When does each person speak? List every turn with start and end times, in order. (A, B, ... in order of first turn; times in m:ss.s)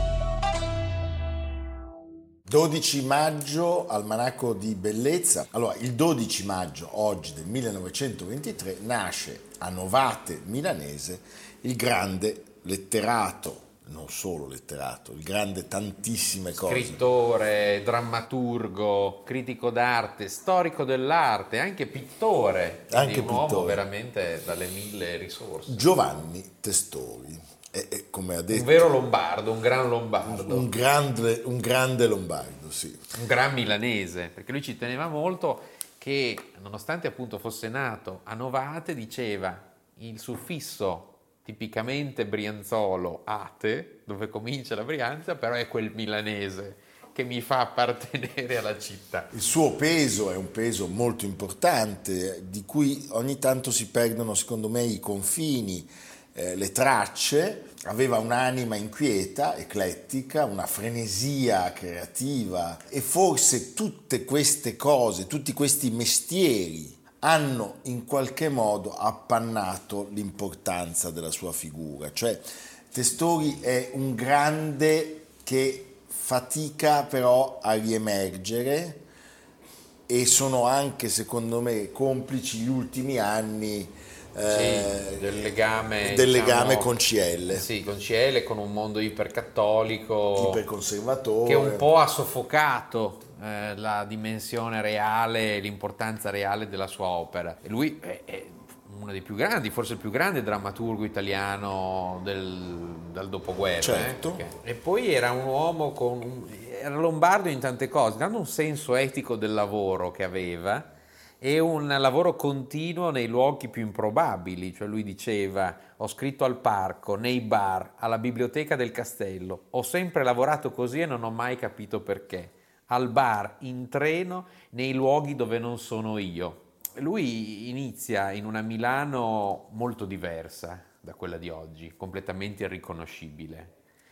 0:02.5-0:17.0 A
0:16.6-0:25.8 B
0:22.9-0:23.8 A
0:25.7-0:28.9 A
0:28.5-0:30.7 B
0:30.2-0:33.0 A
0:33.1-0:49.3 B
0:49.3-1:19.0 A
1:20.1-1:25.3 A
1:24.5-1:26.9 B
1:26.0-1:27.7 A
1:27.5-1:30.6 B
1:30.4-1:31.9 A
1:31.4-2:13.7 B
1:43.8-1:44.4 A